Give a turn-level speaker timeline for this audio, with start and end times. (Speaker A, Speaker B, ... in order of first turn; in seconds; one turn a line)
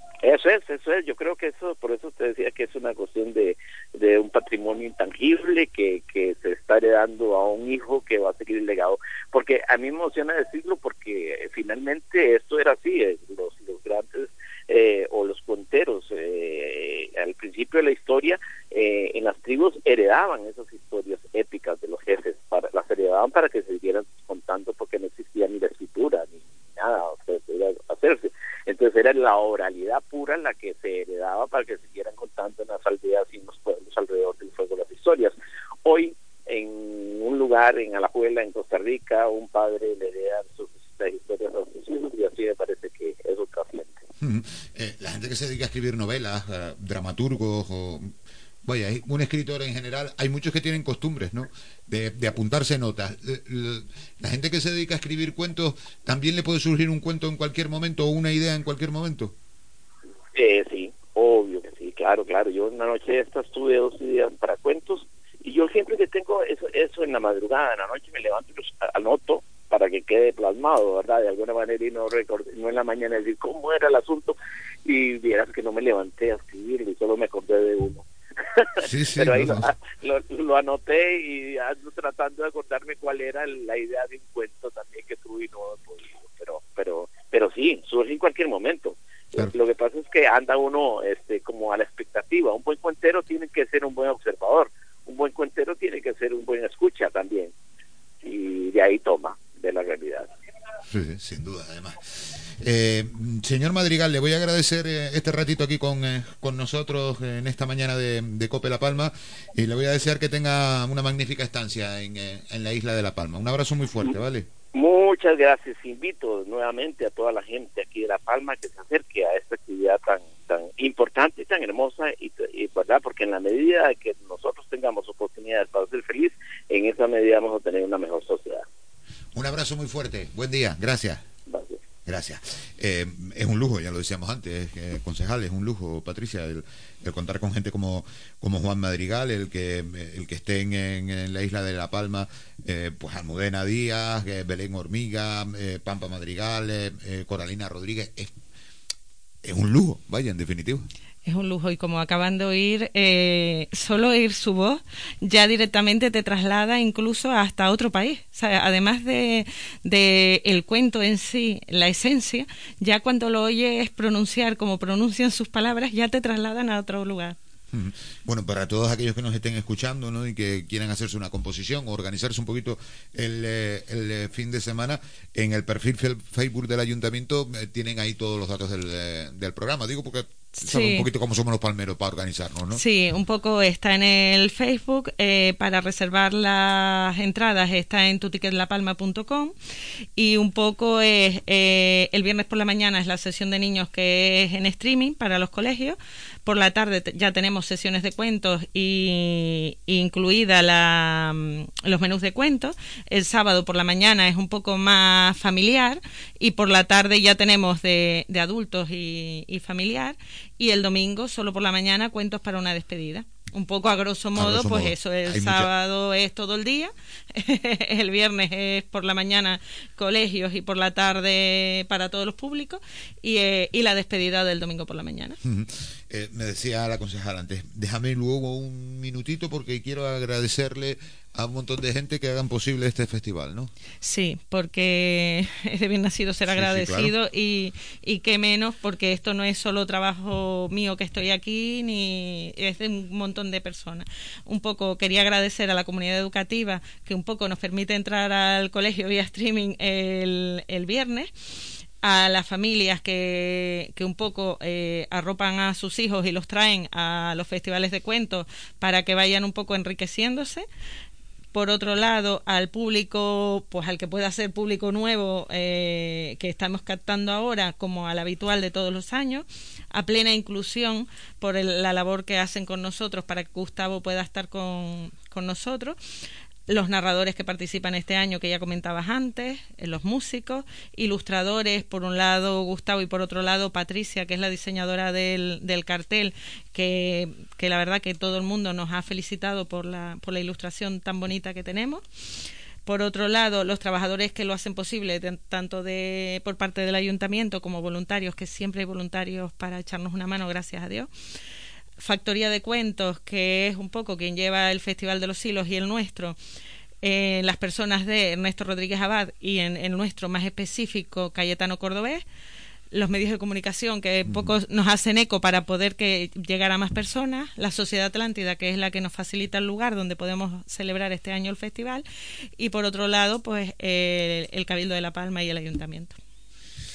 Speaker A: 0.2-44.0
Speaker B: 44.2-48.1
Speaker B: 48.6-59.3
Speaker A: 60.3-74.3
Speaker A: 74.8-78.0
Speaker A: 78.6-97.5
Speaker B: 78.8-79.7
Speaker A: 98.2-100.3
Speaker B: 100.9-114.5
Speaker A: 114.7-128.6
Speaker B: 129.3-131.2
Speaker A: 131.5-131.8
Speaker B: 132.1-148.3
Speaker B: 149.4-150.9
Speaker C: 151.2-167.3
Speaker B: 167.7-182.8
Speaker C: 180.6-181.1
Speaker C: 182.7-189.5
Speaker C: 190.2-225.4
Speaker B: 214.3-215.7
Speaker B: 225.4-233.7
Speaker C: 234.0-251.3
Speaker B: 236.5-237.1
Speaker C: 252.0-260.6
Speaker C: 261.5-276.0
Speaker C: 276.7-292.0
Speaker C: 292.9-301.1
Speaker C: 302.0-306.4
Speaker C: 307.0-312.2
Speaker C: 312.9-322.0
Speaker B: 314.2-314.6
Speaker C: 322.6-326.2